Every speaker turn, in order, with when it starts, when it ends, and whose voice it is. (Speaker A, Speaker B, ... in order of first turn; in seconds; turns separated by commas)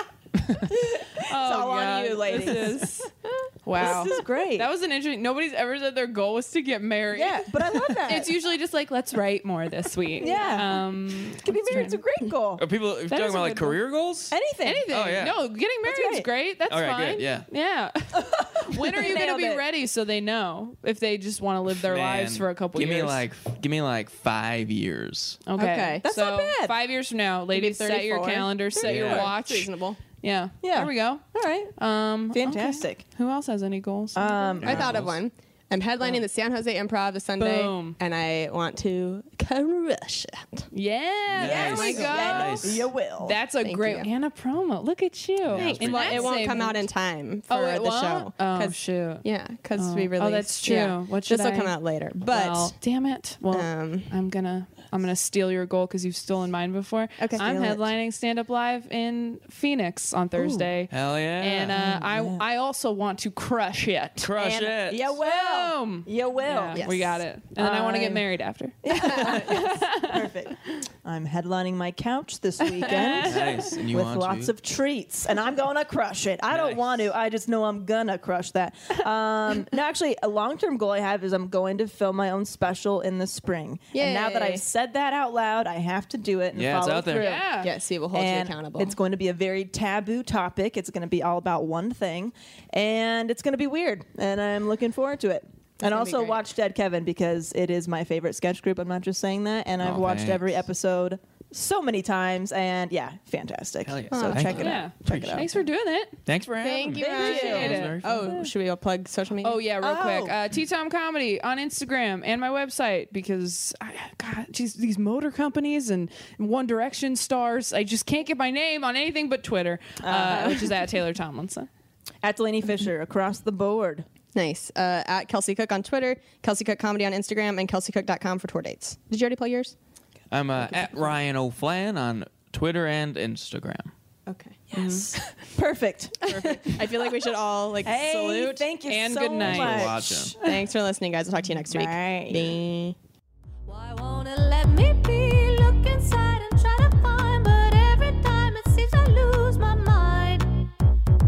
Speaker A: 0.4-0.7, Speaker B: 0.7-2.9, Speaker C: 1.2-3.1, Speaker C: 3.6-12.0, Speaker B: 3.8-4.7, Speaker B: 7.1-8.4, Speaker B: 10.2-12.6, Speaker A: 12.6-14.4, Speaker C: 13.1-13.8, Speaker B: 14.3-14.9, Speaker C: 14.6-23.2, Speaker A: 14.9-15.4, Speaker B: 15.8-16.3, Speaker A: 16.7-17.5, Speaker B: 18.1-19.7, Speaker A: 21.8-25.4, Speaker C: 25.5-31.2, Speaker D: 25.6-26.8, Speaker D: 27.5-30.0, Speaker A: 28.8-29.3, Speaker B: 30.6-31.8, Speaker C: 31.8-34.7, Speaker B: 32.3-33.0, Speaker B: 34.1-35.0, Speaker D: 34.6-40.7, Speaker A: 34.6-35.2, Speaker C: 37.4-38.0, Speaker C: 40.7-46.9, Speaker A: 41.3-42.9, Speaker B: 41.4-43.4, Speaker D: 41.5-42.6, Speaker D: 43.6-44.1, Speaker A: 45.5-46.3, Speaker D: 45.5-52.8, Speaker C: 47.5-49.2, Speaker C: 49.8-70.3, Speaker D: 53.5-54.1, Speaker D: 57.2-57.9, Speaker D: 60.4-60.6, Speaker A: 60.9-62.4, Speaker A: 64.2-65.2, Speaker B: 64.4-66.9, Speaker D: 66.7-67.2, Speaker B: 67.6-68.3, Speaker B: 68.8-87.4, Speaker A: 69.0-69.5, Speaker C: 72.6-73.8, Speaker A: 73.2-74.5, Speaker A: 76.5-77.1, Speaker D: 83.9-84.6, Speaker A: 86.5-87.4, Speaker C: 87.1-87.7, Speaker D: 87.4-89.0, Speaker B: 88.1-105.5, Speaker D: 95.8-96.4, Speaker A: 99.8-100.5, Speaker A: 103.8-105.6, Speaker D: 104.1-104.8, Speaker C: 104.6-106.2, Speaker A: 106.3-108.3, Speaker D: 106.6-109.7, Speaker B: 107.0-107.9, Speaker C: 107.0-108.5, Speaker C: 109.4-121.7, Speaker B: 109.8-110.4, Speaker B: 120.0-120.8, Speaker B: 122.2-124.0, Speaker D: 124.3-129.8, Speaker A: 130.3-133.9, Speaker D: 134.3-134.6, Speaker B: 134.7-137.1, Speaker C: 134.8-135.1, Speaker D: 136.3-138.7, Speaker B: 137.8-140.4, Speaker C: 138.8-140.0, Speaker A: 139.4-140.3, Speaker D: 140.4-143.0, Speaker B: 141.7-142.6, Speaker E: 143.7-150.7